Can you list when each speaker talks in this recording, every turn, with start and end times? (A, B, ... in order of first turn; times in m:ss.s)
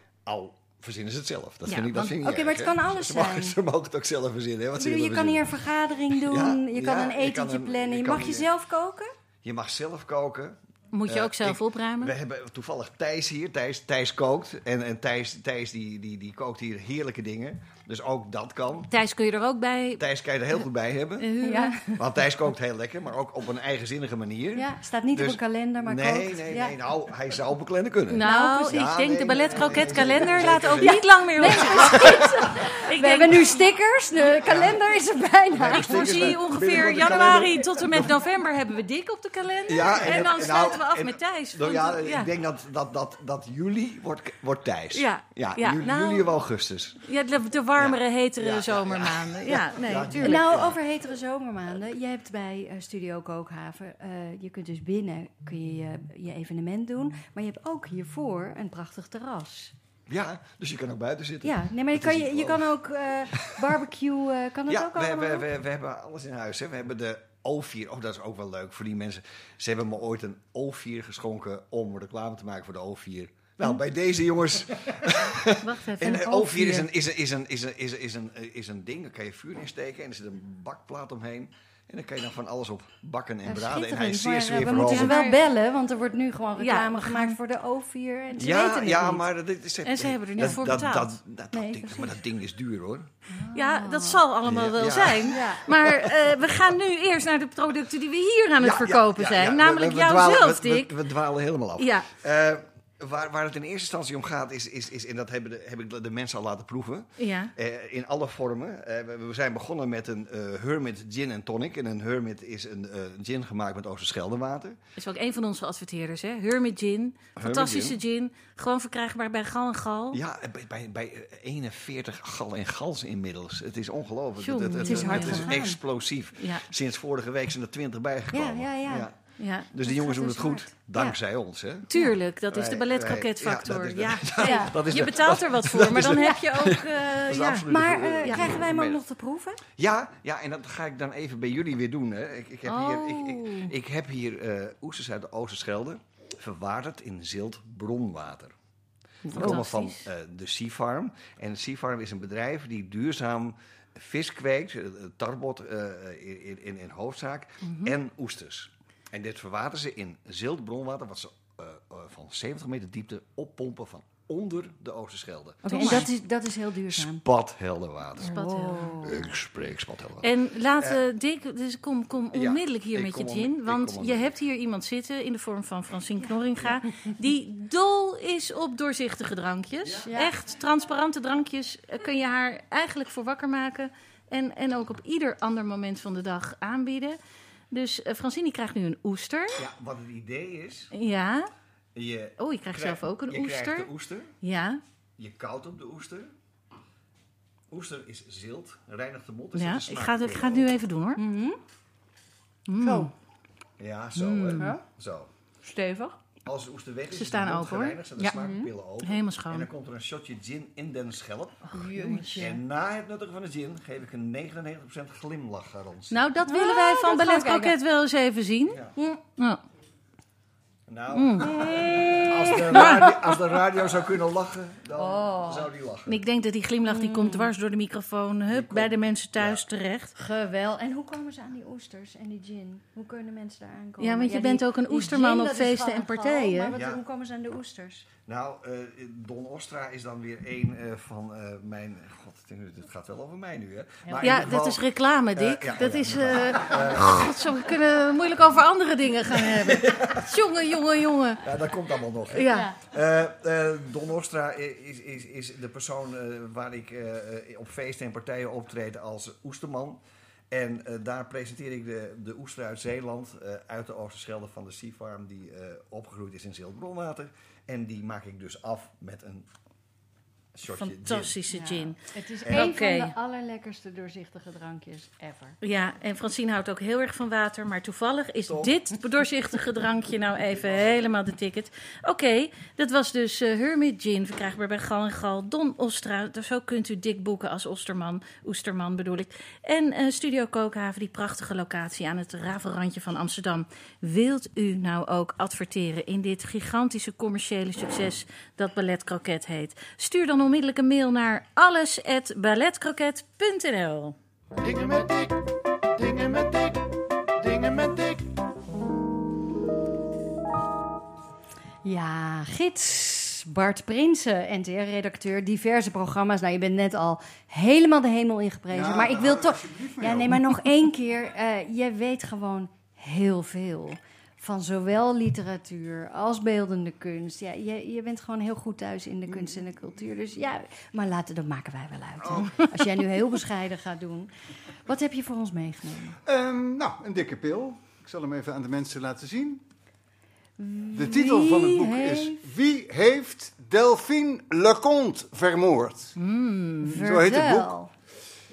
0:00.3-0:05.5 A
0:01.7-0:02.1 B
0:02.1-0:03.6 C
0:04.7-0:09.1 C
0:06.1-0:08.5 A
0:09.4-0:18.9 A
0:10.9-0:12.1 B
0:18.9-0:20.0 B
0:20.0-0:21.3 A
0:21.2-0:21.9 B
0:21.4-0:22.0 C
0:22.0-0:32.4 A
0:24.6-0:26.8 C
0:28.1-0:33.6 B
0:28.2-0:28.9 C
0:29.6-0:30.1 C
0:30.8-0:36.4 C
0:34.4-0:34.8 A
0:35.5-0:38.1 A
0:35.7-0:42.3 B
0:39.7-0:47.0 A
0:44.9-0:46.3 B
0:47.0-0:50.5 B
0:47.8-0:50.8 A
0:50.2-0:59.7 C
1:00.1-1:02.7 A
1:01.4-1:05.4 C
1:03.3-1:03.8 A
1:04.7-1:25.2 A
1:15.6-1:16.9 B
1:23.4-1:29.2 C
1:24.6-1:25.4 B
1:26.6-1:27.4 B
1:28.4-1:33.1 A
1:29.8-1:31.2 B
1:31.5-1:32.2 C
1:33.3-1:34.2 C
1:33.5-1:40.9 B
1:34.4-1:35.5 A
1:35.3-1:35.7 C
1:38.6-1:54.8 A
1:41.8-1:42.1 B
1:47.2-1:47.5 B
1:55.0-2:00.2 B
1:57.4-1:58.0 A
2:00.1-2:11.9 A
2:04.4-2:05.6 B
2:04.8-2:05.8 C
2:06.4-2:06.6 B
2:08.3-2:09.1 C
2:09.4-2:09.7 B
2:09.7-2:11.2 C
2:11.9-2:17.6 B
2:12.4-2:19.0 A
2:14.4-2:14.8 C
2:17.7-2:19.6 C
2:18.2-2:18.6 B
2:19.7-2:28.5 A
2:22.6-2:23.7 B
2:29.2-2:29.6 C
2:29.3-2:46.0 A
2:29.3-2:30.1 B
2:45.6-2:47.2 C
2:45.7-2:46.1 B
2:46.9-2:48.4 A
2:48.2-2:49.2 B
2:48.2-2:49.3 C
2:49.0-2:51.0 A
2:50.2-3:07.2 B
2:52.3-2:54.3 A
2:56.2-2:56.7 C
3:00.0-3:00.3 C
3:07.7-3:09.6 B
3:09.6-3:10.9 A
3:10.9-3:11.5 B
3:12.0-3:14.3 A
3:12.4-3:13.9 B
3:14.4-3:14.8 B
3:15.2-3:16.3 A
3:17.7-3:20.7 A
3:19.5-3:21.2 B
3:21.2-3:21.6 C
3:22.7-3:23.1 B
3:22.8-3:23.1 C
3:23.8-3:25.3 A
3:24.2-3:24.7 B
3:25.6-3:26.2 D
3:26.4-3:31.7 A
3:27.1-3:28.0 B
3:28.2-3:28.5 C
3:29.0-3:29.7 B
3:31.8-3:32.4 B
3:31.9-3:32.5 C
3:32.4-3:36.2 A
3:36.1-3:38.8 B
3:36.5-3:37.8 C
3:38.7-3:38.9 A
3:40.9-3:46.2 A
3:41.1-3:41.7 B
3:41.4-3:43.3 C
3:42.7-3:43.0 B
3:45.0-3:45.7 C
3:46.1-3:50.1 B
3:46.9-3:47.5 C
3:48.5-3:49.6 A
3:50.1-3:58.1 C
3:54.0-3:56.7 B
3:56.7-3:57.0 A
3:58.2-4:04.8 A
4:04.0-4:04.5 C
4:04.2-4:11.4 B
4:05.4-4:07.3 A
4:09.6-4:10.3 A
4:11.4-4:20.0 A
4:12.3-4:12.7 B
4:12.5-4:12.8 C
4:20.5-4:29.5 A
4:30.5-4:31.4 A
4:30.7-4:33.1 B
4:31.5-4:35.6 C
4:32.4-4:32.7 A
4:35.6-5:04.2 B
4:38.5-4:38.8 A
5:04.6-5:05.4 D
5:05.9-5:06.8 D
5:07.4-5:08.2 D
5:11.8-5:34.3 C
5:18.7-5:20.5 E
5:32.2-5:32.6 E
5:32.4-5:32.9 B
5:34.8-5:36.2 C
5:36.2-5:39.6 E
5:40.6-5:42.4 C
5:40.9-5:46.1 E
5:46.2-5:47.1 B
5:46.8-5:47.9 C
5:47.0-5:47.8 E